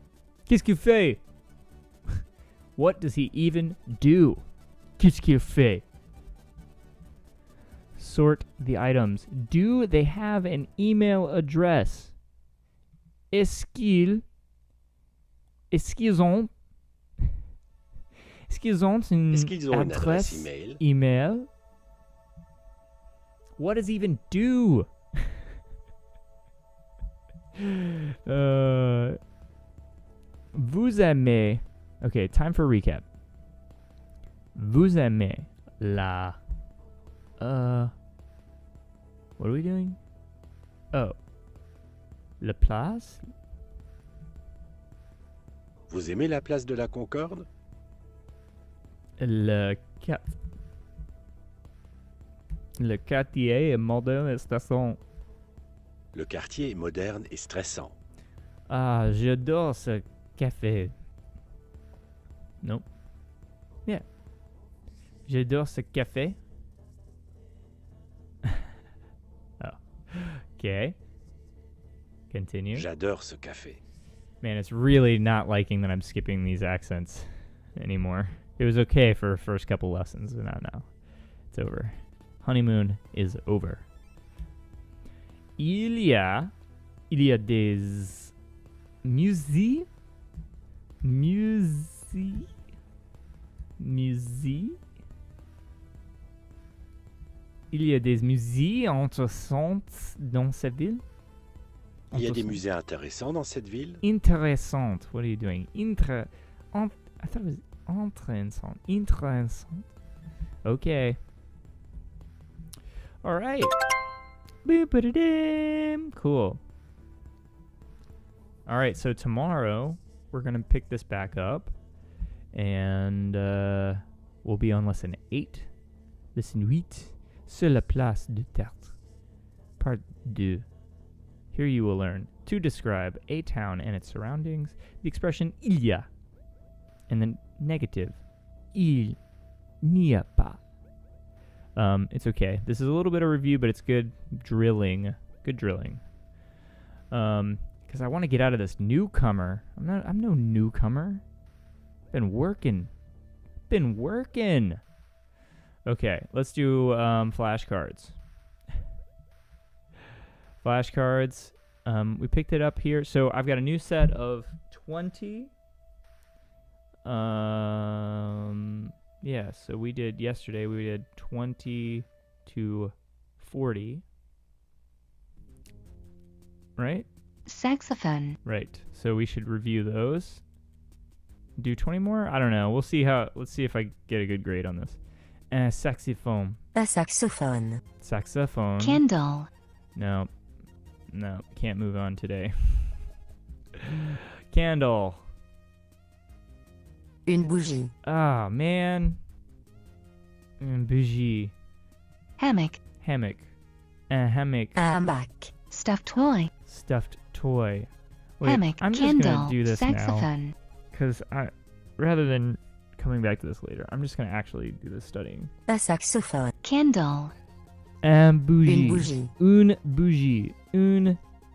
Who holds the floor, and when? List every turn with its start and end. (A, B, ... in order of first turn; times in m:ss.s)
0:00.5-0:01.2 A
0:02.8-0:04.4 A
0:05.0-0:05.8 A
0:08.0-0:12.1 A
0:13.3-0:14.2 A
0:15.7-0:16.5 A
0:18.5-0:21.5 A
0:19.3-0:20.8 B
0:23.6-0:24.9 A
0:27.6-0:29.2 A
0:30.5-0:33.0 A
0:34.6-0:36.4 A
0:37.4-0:37.9 A
0:39.4-0:40.0 A
0:42.4-0:43.2 A
0:45.9-0:47.5 B
0:49.2-0:50.4 A
0:52.8-0:55.0 A
0:56.1-0:58.0 B
0:58.7-1:00.9 A
1:05.2-1:06.4 A
1:09.6-1:11.0 A
1:12.3-1:12.9 A
1:12.7-1:13.8 B
1:14.4-1:20.9 A
1:21.5-1:23.9 A
1:25.6-1:26.5 A
1:27.1-1:28.3 A
1:29.0-1:29.9 A
1:31.0-1:32.5 A
1:33.8-1:34.8 A
1:37.7-1:41.0 A
1:42.1-1:42.6 A
1:42.1-1:44.0 B
1:44.0-1:49.8 A
1:50.6-1:51.2 A
1:53.2-1:53.7 A
1:54.6-1:56.6 A
1:58.7-2:01.7 A
2:02.5-2:05.7 A
2:06.3-2:08.9 A
2:09.8-2:10.6 A
2:11.5-2:16.1 A
2:17.1-2:18.2 A
2:18.7-2:19.2 A
2:19.8-2:20.6 A
2:21.8-2:26.0 A
2:27.1-2:31.2 A
2:32.1-2:32.9 A
2:33.7-2:34.8 A
2:35.8-2:38.2 A
2:40.6-2:45.5 A
2:47.0-2:54.0 A
2:56.8-2:57.1 A
2:57.5-2:58.4 C
2:58.4-3:00.4 A
3:01.6-3:05.0 A
3:05.5-3:06.6 A
3:06.7-3:07.8 D
3:08.0-3:09.0 A
3:08.8-3:09.5 C
3:09.9-3:10.3 A
3:11.1-3:12.9 A
3:13.8-3:15.2 A
3:17.2-3:17.9 D
3:18.0-3:19.2 A
3:20.6-3:21.5 A
3:22.4-3:22.8 C
3:23.0-3:23.5 A
3:24.1-3:24.8 A
3:24.8-3:25.5 D
3:25.7-3:26.5 C
3:26.6-3:30.3 A
3:28.4-3:30.5 C
3:30.9-3:35.5 A
3:35.7-3:36.5 D
3:36.6-3:37.3 C
3:38.0-3:41.2 A
3:38.6-3:39.3 D